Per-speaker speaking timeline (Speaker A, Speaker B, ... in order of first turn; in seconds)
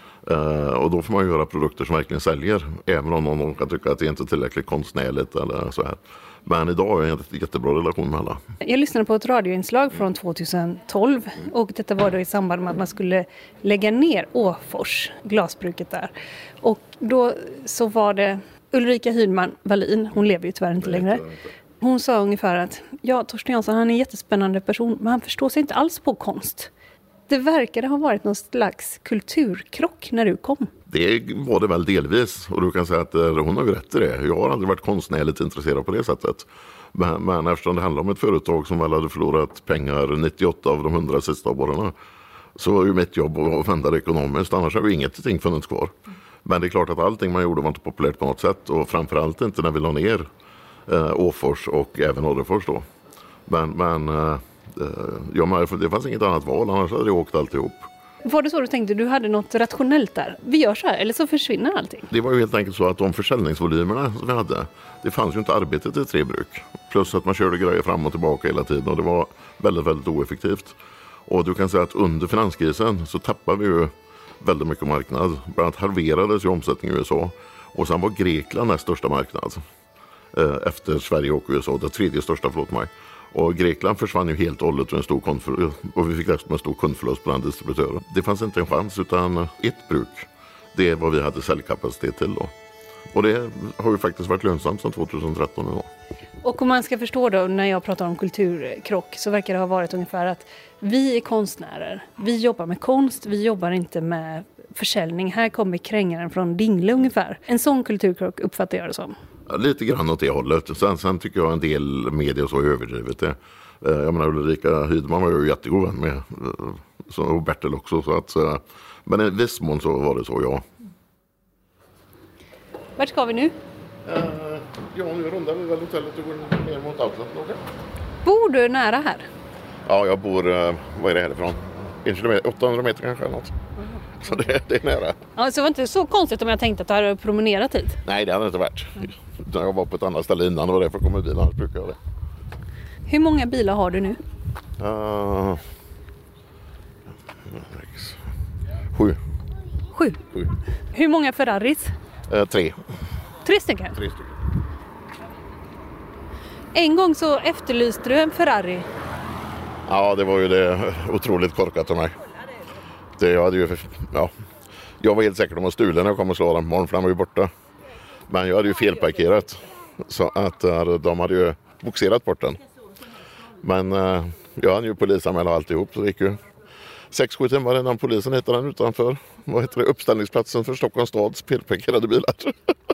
Speaker A: 0.2-8.4, 30.9-42.0, 42.6-45.9, 46.5-50.3, 50.9-52.9, 53.5-57.9, 62.1-70.8, 71.3-79.6, 80.3-92.5, 93.1-95.9, 109.5-120.7, 124.0-127.6, 129.9-133.5, 134.2-135.2, 138.1-142.0, 144.8-145.6, 147.5-148.2, 148.9-149.2, 152.3-152.8, 154.0-154.3, 159.9-162.2, 163.2-164.3, 165.0-167.5, 168.3-172.6, 173.6-176.4, 177.1-182.7
Speaker B: 8.6-21.3, 21.8-26.7, 27.3-30.7, 58.2-62.1, 96.4-109.1, 123.0-123.5, 128.2-129.3, 135.4-138.0, 143.1-144.2, 149.9-150.2, 150.9-151.9, 153.4-154.0, 156.7-158.9